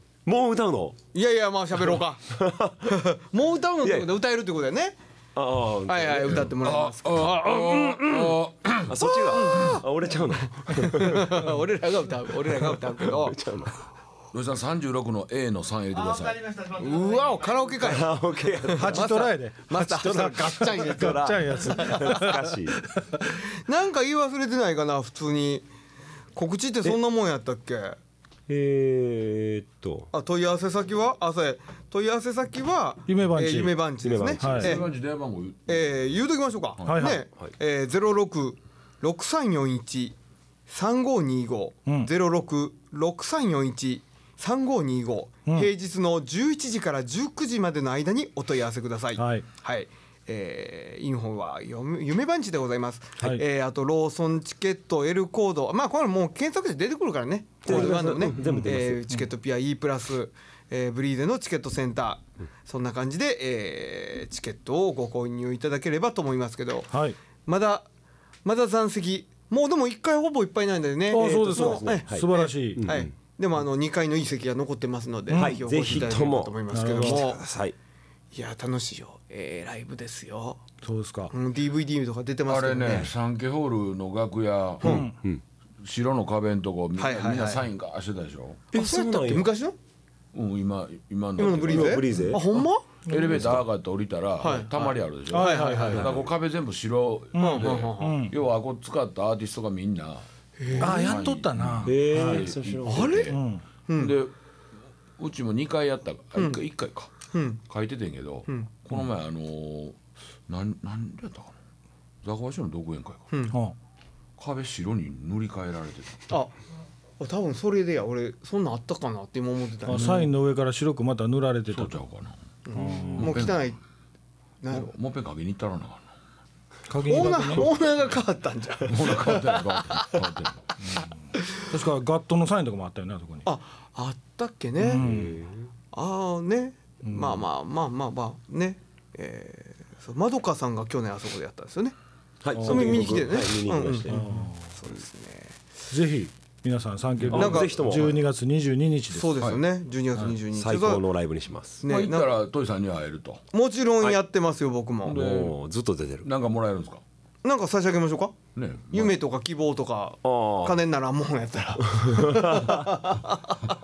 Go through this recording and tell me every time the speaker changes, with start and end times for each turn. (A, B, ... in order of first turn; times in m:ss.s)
0:00.2-0:01.0 A
0:01.1-0:05.0 B
0:02.3-0:02.9 A
0:03.8-0:04.1 A
0:05.3-0:06.5 A
0:05.9-0:07.8 B
0:06.3-0:09.0 C
0:07.5-0:11.6 A
0:09.0-0:09.8 B
0:10.7-0:13.4 B
0:12.6-0:13.7 A
0:14.3-0:16.5 C
0:16.5-0:22.3 B
0:17.8-0:19.2 A
0:18.8-0:22.5 D
0:20.6-0:22.8 A
0:23.5-0:25.7 B
0:26.3-0:28.0 B
0:28.5-0:30.1 A
0:30.1-0:34.9 B
0:33.1-0:33.8 D
0:34.0-0:34.8 A
0:34.4-0:34.8 D
0:34.5-0:36.0 C
0:35.7-0:40.2 B
0:36.8-0:37.1 C
0:36.8-0:37.2 D
0:40.7-1:06.9 B
0:49.2-0:49.4 D
0:57.6-0:59.0 A
0:57.7-0:59.2 D
1:06.9-1:07.2 D
1:07.4-1:07.9 B
1:08.4-1:17.4 B
1:11.1-1:12.8 D
1:11.2-1:13.1 A
1:15.3-1:15.6 D
1:15.4-1:17.8 A
1:16.7-1:17.2 D
1:18.3-1:20.6 B
1:20.8-1:21.3 D
1:21.3-1:23.1 B
1:22.5-1:25.1 C
1:24.8-1:25.1 D
1:24.8-1:25.4 A
1:25.8-1:28.6 C
1:27.0-1:27.6 B
1:28.7-1:29.5 A
1:28.7-1:29.7 B
1:30.3-1:32.4 C
1:31.4-1:33.0 B
1:31.6-1:32.4 A
1:33.1-1:43.4 C
1:33.3-1:33.6 A
1:34.4-1:36.1 B
1:35.3-1:36.1 D
1:35.9-1:36.3 A
1:37.4-1:38.3 D
1:37.4-1:38.3 B
1:40.6-1:41.2 B
1:40.8-1:42.5 D
1:41.8-1:43.2 A
1:42.8-1:44.1 B
1:43.3-1:43.6 D
1:44.0-1:44.3 C
1:45.2-1:47.1 C
1:47.3-1:47.6 B
1:47.7-1:51.5 C
1:52.2-1:53.3 C
1:53.3-1:53.6 B
1:53.5-1:53.8 D
1:54.4-1:56.3 C
1:56.3-1:56.5 B
1:57.2-2:00.3 B
1:59.8-2:02.0 D
1:59.9-2:00.3 C
2:01.7-2:02.4 C
2:02.6-2:03.8 B
2:02.7-2:03.4 D
2:03.1-2:03.7 C
2:04.6-2:04.9 B
2:04.7-2:06.1 C
2:06.9-2:07.7 D
2:07.0-2:10.2 B
2:08.8-2:10.8 C
2:11.6-2:13.4 D
2:13.4-2:15.0 B
2:14.8-2:15.3 D
2:15.0-2:15.7 A
2:15.9-2:22.0 B
2:17.0-2:17.4 D
2:22.4-2:24.3 A
2:22.5-2:23.2 D
2:22.6-2:25.6 B
2:24.1-2:24.7 D
2:25.9-2:29.4 D
2:27.2-2:27.5 C
2:27.3-2:28.2 A
2:27.3-2:28.0 B
2:29.1-2:31.0 B
2:30.5-2:31.8 A
2:31.8-2:32.3 B
2:31.8-2:33.4 C
2:33.5-2:35.2 B
2:35.0-2:35.6 C
2:35.1-2:36.3 A
2:36.2-2:37.0 C
2:37.4-2:38.4 B
2:38.5-2:39.1 C
2:38.9-2:43.6 B
2:40.2-2:40.8 A
2:42.0-2:42.8 A